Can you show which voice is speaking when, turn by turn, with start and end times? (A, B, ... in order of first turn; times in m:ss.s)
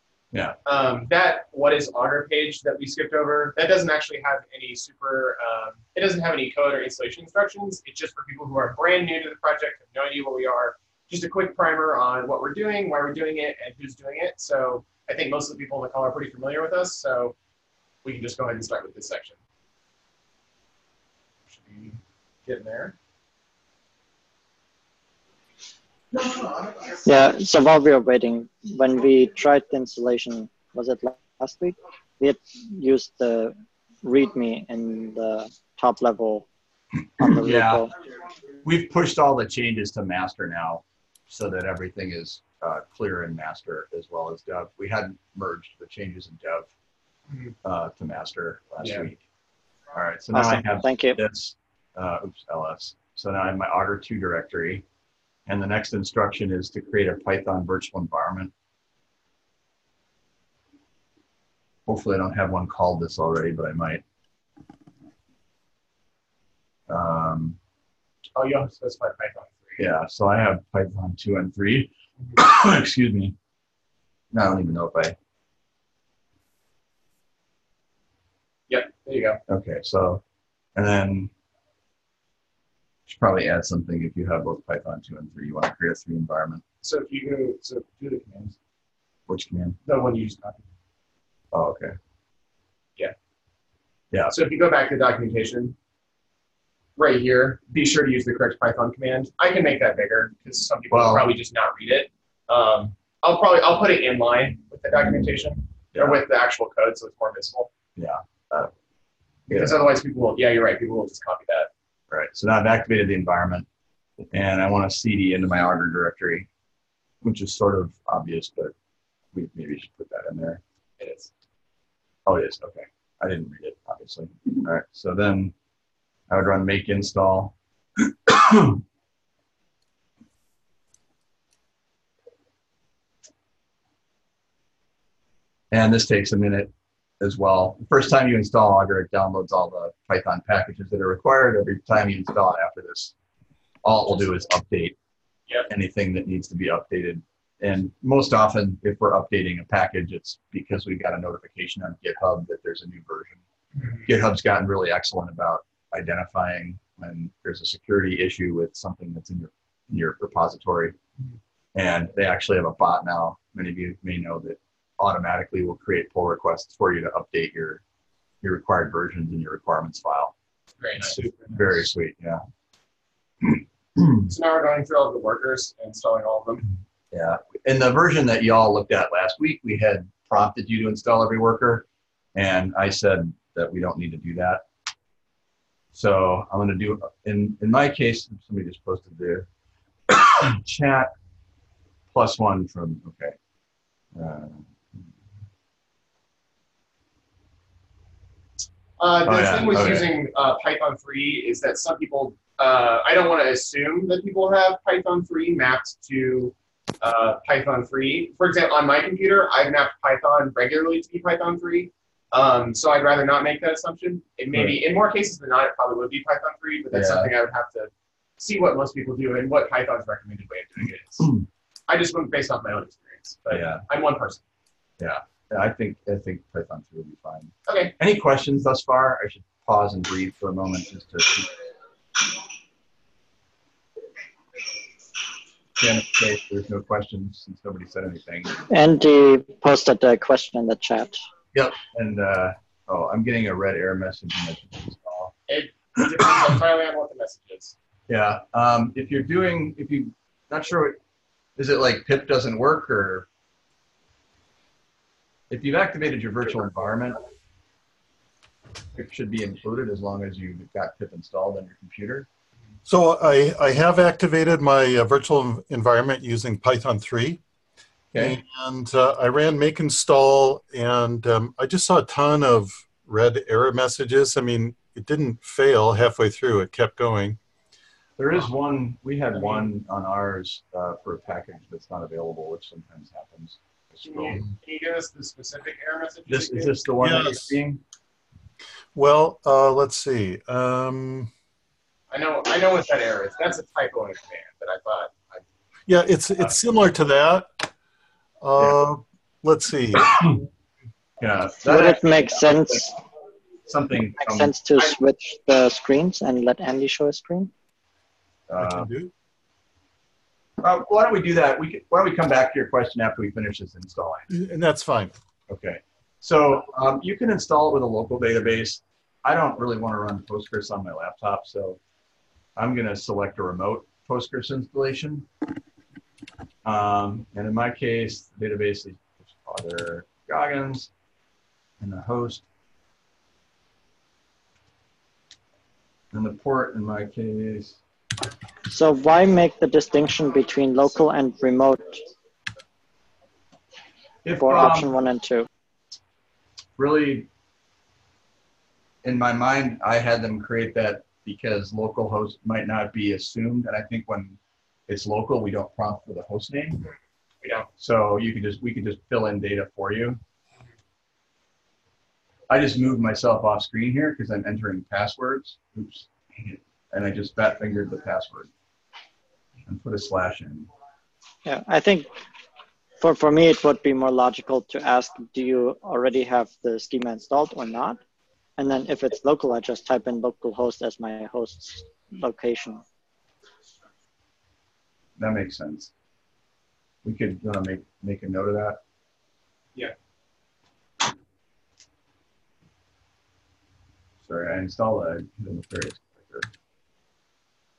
0:00.6-0:17.4 A
0:18.0-0:19.4 A
0:21.5-0:23.0 A
0:26.9-0:36.5 B
0:37.2-0:37.9 B
0:37.2-0:37.9 C
0:38.6-0:46.7 C
0:47.6-0:49.2 C
0:48.8-0:49.1 A
0:49.9-0:54.8 C
0:50.3-0:51.2 B
0:55.5-0:58.5 C
1:01.9-1:04.0 C
1:06.9-1:07.6 C
1:08.4-1:09.8 A
1:09.8-1:13.4 C
1:14.3-1:15.2 C
1:18.7-1:19.4 A
1:19.5-1:20.2 C
1:20.8-1:21.3 C
1:23.1-1:26.6 C
1:26.8-1:28.6 A
1:29.3-1:29.8 C
1:29.8-1:30.6 A
1:31.5-1:32.0 C
1:34.3-1:35.8 A
1:37.0-1:47.7 A
1:40.9-1:41.3 C
1:45.9-1:46.2 C
1:48.0-1:48.7 C
1:49.5-1:49.8 C
1:49.5-1:51.7 A
1:52.1-1:53.7 C
1:54.3-1:56.5 C
1:57.2-1:58.7 C
1:59.3-2:00.6 C
2:01.0-2:01.3 A
2:02.3-2:05.5 C
2:06.3-2:08.8 C
2:15.7-2:23.1 C
2:23.8-2:25.0 C
2:25.7-2:33.4 C
2:33.8-2:34.0 A
2:34.0-2:41.0 C
2:41.8-2:47.8 C
2:48.4-2:50.3 C
2:50.8-2:51.8 A
2:51.0-2:52.4 C
2:53.4-2:54.3 C
2:54.3-2:56.7 A
2:57.1-3:04.6 C
3:05.9-3:09.5 C
3:10.1-3:11.1 C
3:12.1-3:13.4 C
3:14.2-3:15.1 C
3:19.0-3:41.3 A
3:19.2-3:20.1 C
3:34.5-3:34.8 C
3:36.9-3:37.3 C
3:41.2-3:41.5 C
3:41.9-3:44.4 A
3:43.5-3:43.8 C
3:45.0-3:51.5 C
3:47.7-3:47.9 A
3:55.8-3:58.6 C
3:58.7-4:01.2 B
4:01.5-4:05.3 C
4:05.5-4:07.8 A
4:08.1-4:11.0 C
4:11.6-4:13.3 C
4:15.5-4:17.2 C
4:18.9-4:22.3 C
4:22.9-4:27.4 D
4:28.1-4:28.4 C
4:28.2-4:37.4 D
4:38.2-4:44.5 C
4:39.3-4:39.7 A
4:44.0-4:46.8 A
4:46.3-4:47.8 C
4:47.0-4:47.6 D
4:49.0-4:51.3 D
4:52.1-4:55.4 A
4:55.9-4:57.7 D
4:58.4-5:00.4 D
5:00.0-5:00.4 C
5:01.2-5:02.8 C
5:01.6-5:02.9 B
5:03.7-5:04.6 C
5:04.2-5:07.5 B
5:08.5-5:08.9 C
5:08.6-5:09.1 D
5:10.6-5:14.3 C
5:14.3-5:15.1 D
5:15.5-5:21.8 C
5:22.6-5:25.3 C
5:26.6-5:30.9 C
5:31.8-5:32.4 C
5:36.1-5:37.8 C
5:38.7-5:42.1 B
5:44.2-5:45.0 C
5:44.4-5:45.5 B
5:46.8-5:47.3 C
5:49.0-5:56.8 C
5:57.4-5:57.7 A
5:57.8-6:00.2 C
6:02.5-6:08.5 C
6:09.7-6:10.7 C
6:11.4-6:12.1 B
6:13.0-6:18.0 B
6:18.6-6:22.8 B
6:25.2-6:25.9 C
6:27.0-6:28.8 C
6:34.2-6:36.5 C